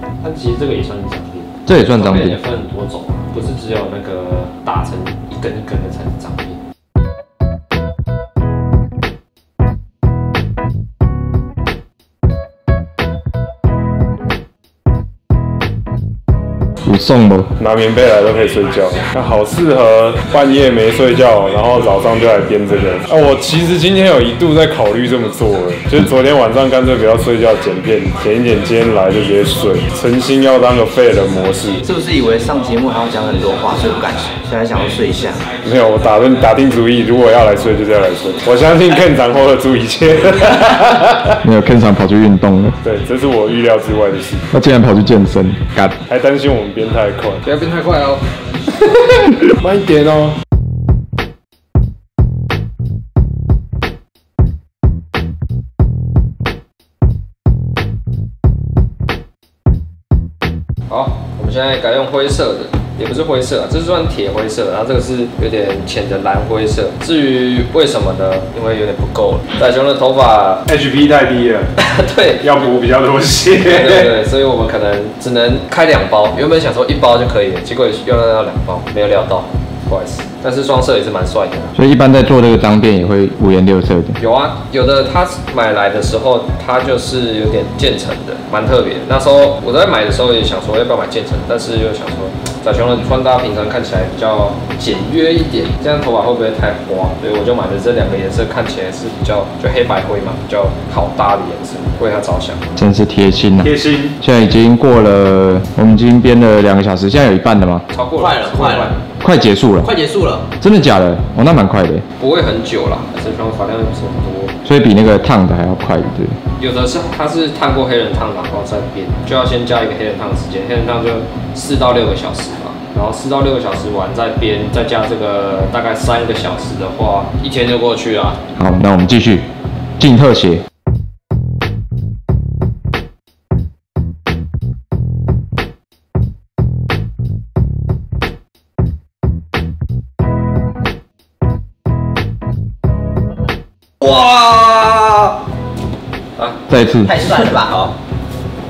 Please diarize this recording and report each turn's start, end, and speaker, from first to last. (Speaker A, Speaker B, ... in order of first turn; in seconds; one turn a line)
Speaker A: 0.2-6.6
Speaker B: 1.6-2.4
Speaker B: 16.8-17.5
Speaker C: 17.6-31.9
Speaker D: 31.8-35.5
Speaker C: 35.5-41.2
Speaker B: 41.4-42.8
Speaker C: 42.8-44.5
Speaker B: 44.5-46.0
Speaker C: 46.1-47.4
Speaker A: 47.4-48.2
Speaker C: 49.6-50.3
Speaker A: 49.8-50.3
Speaker A: 60.9-70.6
Speaker C: 70.7-71.7
Speaker A: 71.8-72.7
Speaker C: 72.4-74.1
Speaker A: 73.6-81.7
Speaker B: 81.7-84.2
Speaker A: 84.2-102.7
Speaker B: 102.8-107.8
Speaker E: 103.6-104.1
Speaker A: 107.9-109.0
Speaker E: 108.2-108.6
Speaker B: 109.2-109.9
Speaker B: 110.5-112.0
Speaker A: 112.2-114.5
Speaker B: 114.6-116.4
Speaker A: 116.6-128.4
Speaker B: 128.5-129.4
Speaker B: 130.0-130.6
Speaker E: 144.0-145.4
Speaker B: 146.7-147.3
Speaker D: 147.1-147.6
Speaker E: 147.3-147.9